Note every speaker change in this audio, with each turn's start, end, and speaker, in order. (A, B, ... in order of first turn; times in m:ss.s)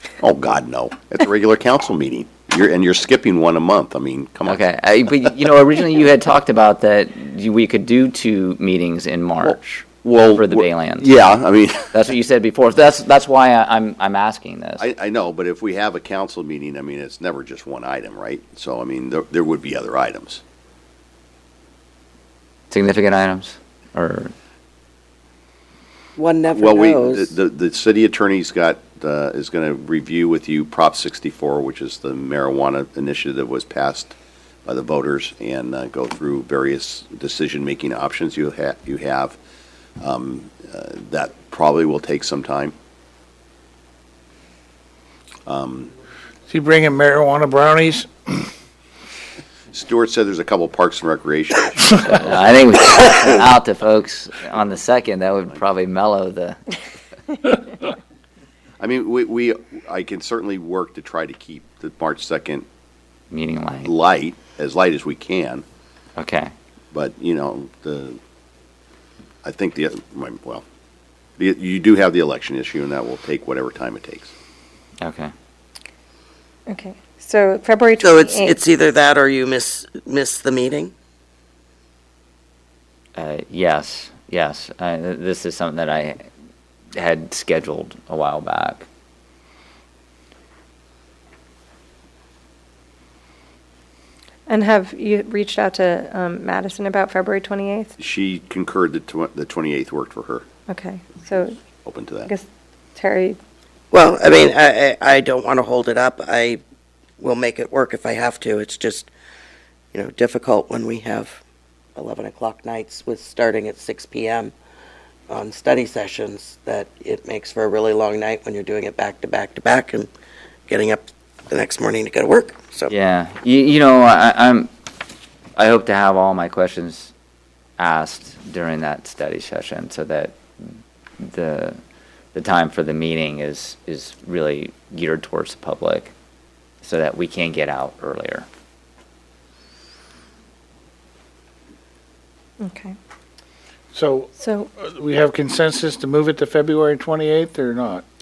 0:00.2-0:04.6 A
0:04.4-0:11.1 B
0:09.4-0:12.0 A
0:11.9-0:14.8 B
0:14.8-0:20.4 A
0:22.7-0:24.3 B
0:26.2-0:27.3 C
0:26.5-0:39.4 A
0:40.0-0:42.7 A
0:45.5-0:45.9 A
0:46.5-0:48.5 D
0:49.7-0:52.3 A
0:52.0-0:56.6 B
0:58.8-1:02.7 A
1:03.3-1:03.9 B
1:03.8-1:05.6 A
1:06.2-1:06.5 B
1:06.9-1:08.2 A
1:09.4-1:10.6 A
1:11.4-1:14.3 A
1:15.0-1:15.3 B
1:16.7-1:18.6 E
1:18.0-1:20.9 C
1:23.2-1:26.2 B
1:26.9-1:28.9 B
1:34.5-1:37.9 E
1:38.0-1:40.4 A
1:40.7-1:41.6 E
1:41.8-1:42.3 A
1:42.2-1:43.4 E
1:43.9-1:46.6 C
1:47.2-1:49.1 C
1:49.9-1:51.4 C
1:52.0-1:54.5 C
1:55.3-2:00.1 C
2:00.7-2:02.9 C
2:02.9-2:04.7 B
2:05.6-2:07.1 B
2:07.8-2:10.4 B
2:11.2-2:11.8 B
2:12.3-2:16.1 B
2:16.8-2:18.5 B
2:22.6-2:23.0 E
2:23.9-2:28.0 D
2:24.4-2:24.7 E